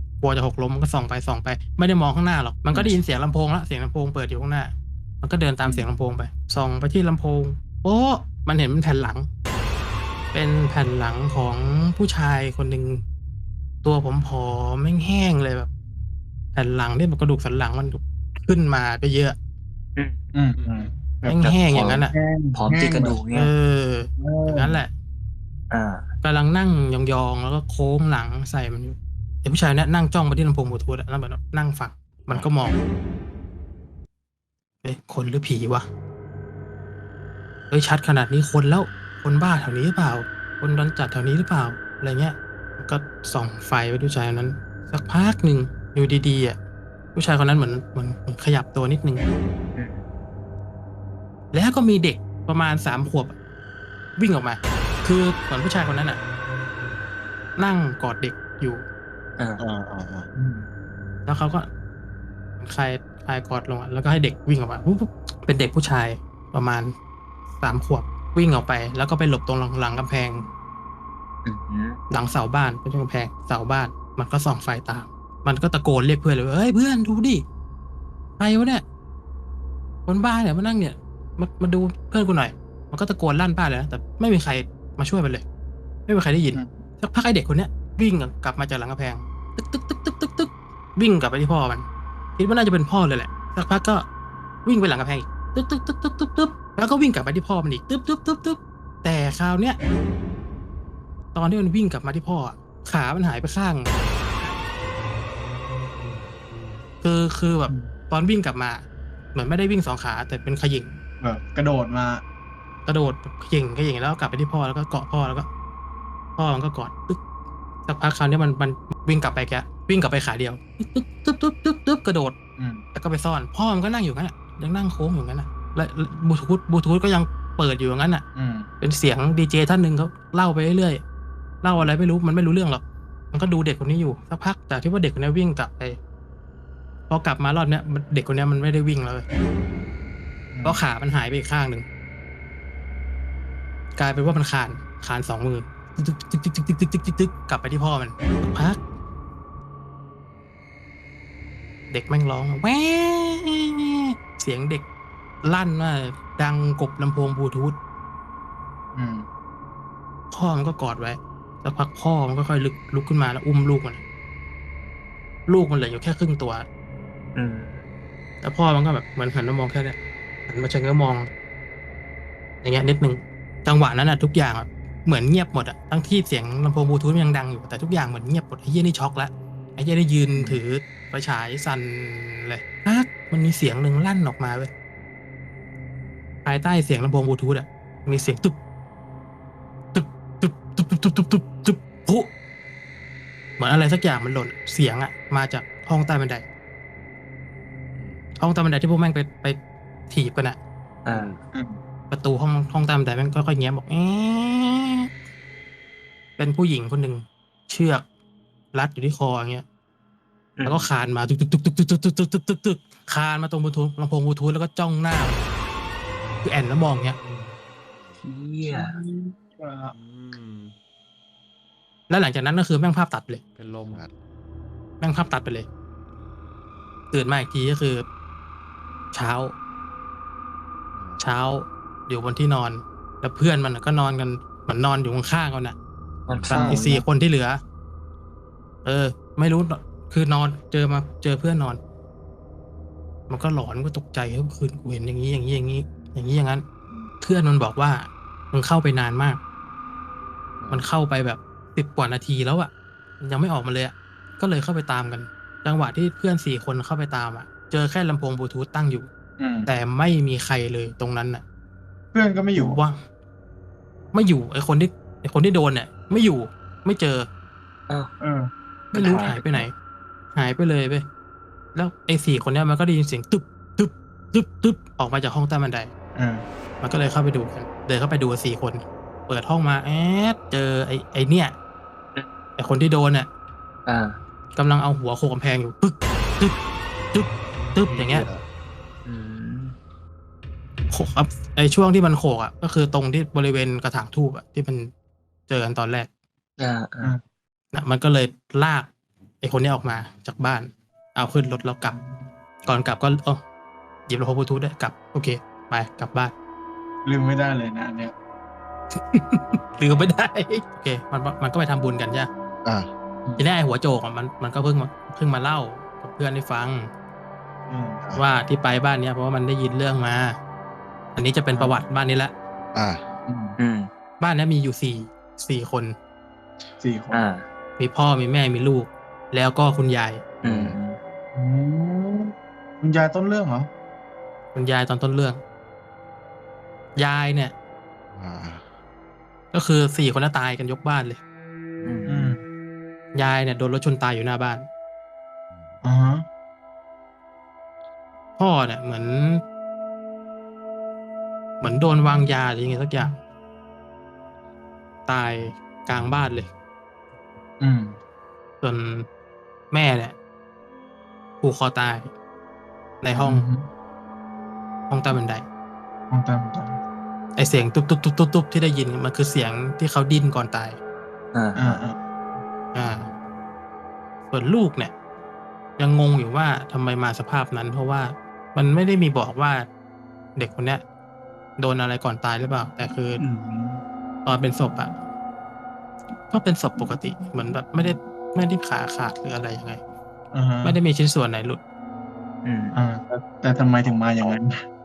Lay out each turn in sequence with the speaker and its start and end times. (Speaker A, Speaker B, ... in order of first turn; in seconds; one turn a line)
Speaker A: 0.2-9.3
Speaker A: 10.3-13.0
Speaker A: 13.8-15.7
Speaker A: 16.6-19.4
Speaker B: 20.3-21.5
Speaker C: 20.6-20.9
Speaker A: 21.2-22.1
Speaker D: 21.4-23.5
Speaker B: 22.1-23.2
Speaker A: 23.3-24.9
Speaker B: 24.2-24.8
Speaker D: 25.7-26.1
Speaker A: 26.2-32.8
Speaker A: 34.8-35.9
Speaker A: 37.7-46.6
Speaker A: 47.1-49.2
Speaker D: 49.8-50.1
Speaker A: 51.5-53.4
Speaker A: 54.2-56.2
Speaker A: 57.6-58.8
Speaker D: 59.4-59.6
Speaker E: 59.6-60.3
Speaker B: 60.3-60.7
Speaker A: 61.3-61.7
Speaker A: 62.6-66.9
Speaker A: 67.6-70.5
Speaker D: 71.5-72.0
Speaker A: 72.1-77.4
Speaker A: 78.4-78.8
Speaker A: 80.1-85.4
Speaker A: 86.1-91.8
Speaker B: 86.5-86.8
Speaker A: 92.4-94.0
Speaker A: 94.7-99.8
Speaker A: 101.3-103.9
Speaker A: 107.0-108.8
Speaker A: 109.3-110.9
Speaker B: 111.2-112.2
Speaker A: 112.9-115.5
Speaker A: 116.4-117.2
Speaker A: 117.9-122.3
Speaker B: 122.6-122.8
Speaker A: 122.9-128.2
Speaker B: 128.4-128.7
Speaker A: 128.8-131.0
Speaker A: 131.6-132.8
Speaker A: 133.3-136.0
Speaker A: 137.1-139.2
Speaker B: 140.5-140.8
Speaker A: 140.7-141.8
Speaker A: 144.0-148.8
Speaker A: 151.9-154.8
Speaker A: 155.4-157.8
Speaker B: 158.9-159.3
Speaker A: 160.3-164.0
Speaker A: 165.5-166.7
Speaker D: 167.3-167.8
Speaker A: 168.4-171.3
Speaker A: 172.6-184.7
Speaker A: 186.4-188.6
Speaker A: 189.9-192.3
Speaker A: 193.6-196.4
Speaker A: 198.4-199.6
Speaker A: 200.1-200.6
Speaker D: 201.1-201.4
Speaker B: 201.5-201.8
Speaker A: 202.1-205.1
Speaker A: 206.4-208.0
Speaker A: 208.7-209.7
Speaker D: 210.6-210.9
Speaker A: 210.7-215.5
Speaker A: 216.4-217.2
Speaker C: 217.3-217.5
Speaker D: 218.2-219.0
Speaker B: 218.7-219.9
Speaker C: 219.9-220.7
Speaker A: 222.1-223.4
Speaker C: 223.6-224.1
Speaker A: 225.0-225.7
Speaker A: 227.1-228.1
Speaker A: 229.1-229.5
Speaker A: 231.2-235.8
Speaker D: 236.3-237.0
Speaker E: 236.3-236.7
Speaker B: 236.5-236.8
Speaker A: 236.5-237.6
Speaker A: 238.8-241.8
Speaker A: 243.3-246.6
Speaker A: 247.2-249.4
Speaker E: 250.6-250.9
Speaker A: 250.7-259.1
Speaker B: 259.4-259.7
Speaker A: 259.7-261.4
Speaker B: 262.1-262.8
Speaker A: 262.6-263.0
Speaker A: 264.1-267.3
Speaker B: 268.2-268.5
Speaker D: 268.9-269.7
Speaker A: 268.9-269.7
Speaker A: 270.4-271.1
Speaker A: 271.8-275.9
Speaker B: 276.2-276.4
Speaker A: 276.8-281.6
Speaker A: 282.6-283.3
Speaker D: 283.9-284.2
Speaker A: 284.6-286.6
Speaker A: 287.1-288.3
Speaker E: 287.9-288.4
Speaker D: 289.1-289.8
Speaker A: 290.9-294.9
Speaker A: 295.5-296.1
Speaker D: 296.6-297.2
Speaker A: 297.7-298.9
Speaker A: 299.4-302.0
Speaker A: 302.6-303.4
Speaker A: 304.1-306.3
Speaker B: 307.1-308.1
Speaker A: 309.1-312.3
Speaker E: 312.6-312.9
Speaker A: 313.4-316.9
Speaker B: 317.7-318.0
Speaker A: 318.1-320.4
Speaker A: 321.1-322.3
Speaker B: 321.6-321.8
Speaker E: 322.7-323.1
Speaker B: 323.3-323.6
Speaker D: 323.6-323.9
Speaker A: 324.2-325.9
Speaker B: 326.8-327.3
Speaker D: 327.1-327.5
Speaker A: 327.8-330.2
Speaker D: 330.4-331.0
Speaker E: 330.4-330.8
Speaker B: 331.4-333.7
Speaker A: 334.6-335.4
Speaker A: 337.0-337.5
Speaker E: 338.2-338.6
Speaker A: 339.5-341.2
Speaker D: 341.8-342.3
Speaker B: 342.1-342.4
Speaker A: 343.1-344.7
Speaker B: 345.8-346.3
Speaker A: 348.4-349.4
Speaker A: 351.6-353.2
Speaker A: 355.1-356.5
Speaker B: 357.6-358.0
Speaker A: 358.6-359.1
Speaker A: 359.7-360.1
Speaker A: 361.4-362.1
Speaker A: 363.0-363.5
Speaker B: 363.1-363.7
Speaker A: 364.9-365.4
Speaker B: 366.1-366.8
Speaker A: 367.4-370.8
Speaker D: 371.3-371.8
Speaker B: 371.6-372.0
Speaker A: 372.7-373.1
Speaker A: 374.3-374.9
Speaker A: 375.8-379.7
Speaker A: 380.4-380.8
Speaker A: 381.6-383.2
Speaker D: 383.2-383.8
Speaker A: 384.2-384.9
Speaker A: 386.3-389.8
Speaker B: 390.3-390.8
Speaker A: 390.6-391.6
Speaker D: 392.4-392.8
Speaker B: 392.7-394.6